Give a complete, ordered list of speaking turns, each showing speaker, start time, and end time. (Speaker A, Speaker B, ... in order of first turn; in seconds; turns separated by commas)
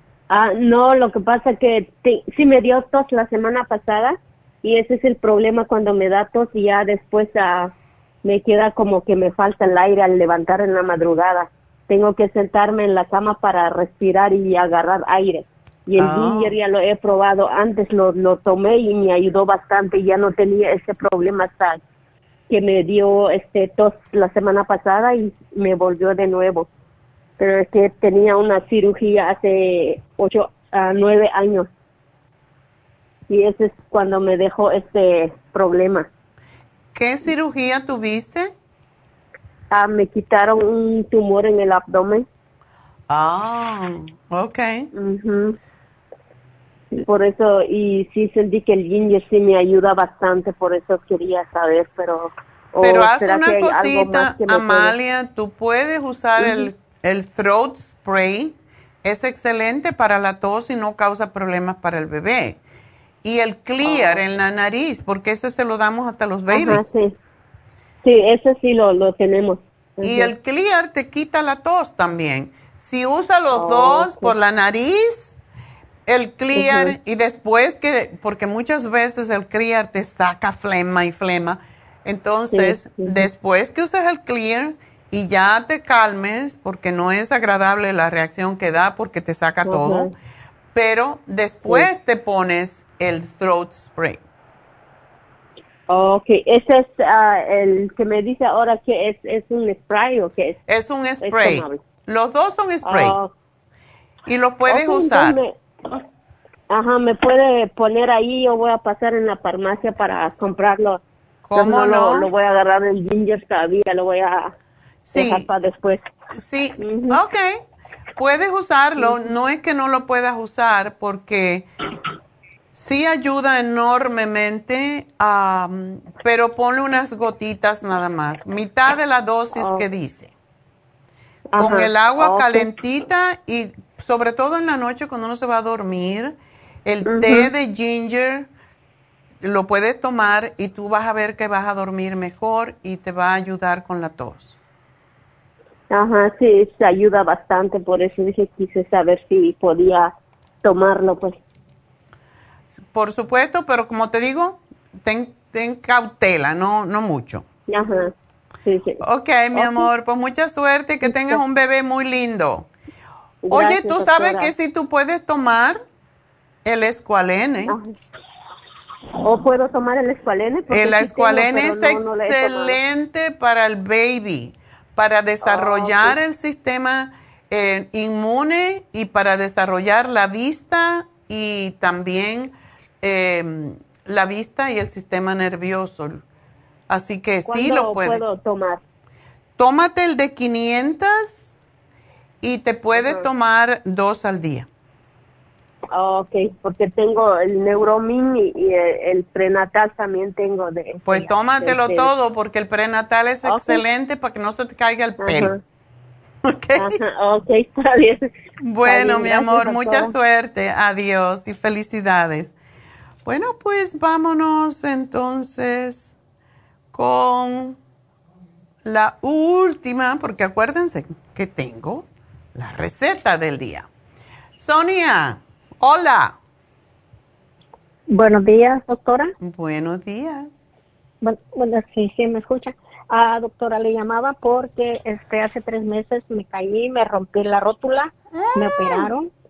Speaker A: 0.3-21.8, Speaker B: 16.0-16.6, Speaker A: 22.5-26.7, Speaker A: 27.4-31.7, Speaker A: 33.3-36.1, Speaker B: 36.9-38.5, Speaker A: 39.7-42.2, Speaker B: 43.1-44.9, Speaker A: 44.9-45.6, Speaker A: 46.9-55.0, Speaker B: 52.8-62.6, Speaker A: 56.4-56.7, Speaker B: 63.2-66.8, Speaker A: 63.8-64.2, Speaker A: 66.5-67.2, Speaker A: 68.0-70.3, Speaker B: 70.0-75.4, Speaker A: 73.5-74.3, Speaker B: 76.0-90.1, Speaker A: 76.5-76.9, Speaker A: 82.5-83.3, Speaker A: 89.7-90.1, Speaker B: 90.7-94.2, Speaker A: 95.9-100.6, Speaker B: 100.7-103.2, Speaker A: 101.2-101.8, Speaker A: 102.8-103.3, Speaker B: 104.2-105.3, Speaker A: 104.7-105.5, Speaker A: 106.7-111.0, Speaker B: 111.5-112.3, Speaker A: 111.5-114.5, Speaker B: 115.0-115.5, Speaker A: 115.1-116.0, Speaker B: 116.3-117.6, Speaker A: 116.8-117.2, Speaker B: 118.2-121.7, Speaker B: 122.7-130.3, Speaker A: 129.5-129.8, Speaker A: 131.5-132.7, Speaker B: 131.6-138.5, Speaker A: 137.0-137.5, Speaker B: 139.4-144.6, Speaker A: 145.9-150.1, Speaker A: 150.6-151.4, Speaker B: 152.8-157.4, Speaker A: 157.7-158.1, Speaker A: 158.6-159.0, Speaker B: 159.0-162.7, Speaker A: 159.5-159.9, Speaker A: 161.0-161.4, Speaker A: 163.4-164.5, Speaker B: 163.5-165.8, Speaker B: 166.6-167.8, Speaker A: 167.7-167.9, Speaker A: 169.2-172.8, Speaker B: 170.7-186.2, Speaker A: 175.4-176.2, Speaker B: 186.9-188.2, Speaker A: 187.4-188.8, Speaker B: 189.6-191.5, Speaker B: 192.4-194.7, Speaker A: 192.9-193.2, Speaker A: 195.9-202.1, Speaker B: 201.0-205.5, Speaker A: 203.4-203.8, Speaker A: 205.2-205.6, Speaker B: 206.4-207.0, Speaker A: 206.8-208.3, Speaker B: 208.6-212.5, Speaker A: 208.8-210.1, Speaker B: 213.2-216.1, Speaker B: 216.9-217.8, Speaker B: 218.8-223.9, Speaker B: 224.6-226.4, Speaker C: 228.1-229.3, Speaker B: 229.4-230.6, Speaker C: 231.2-239.3, Speaker B: 238.4-239.1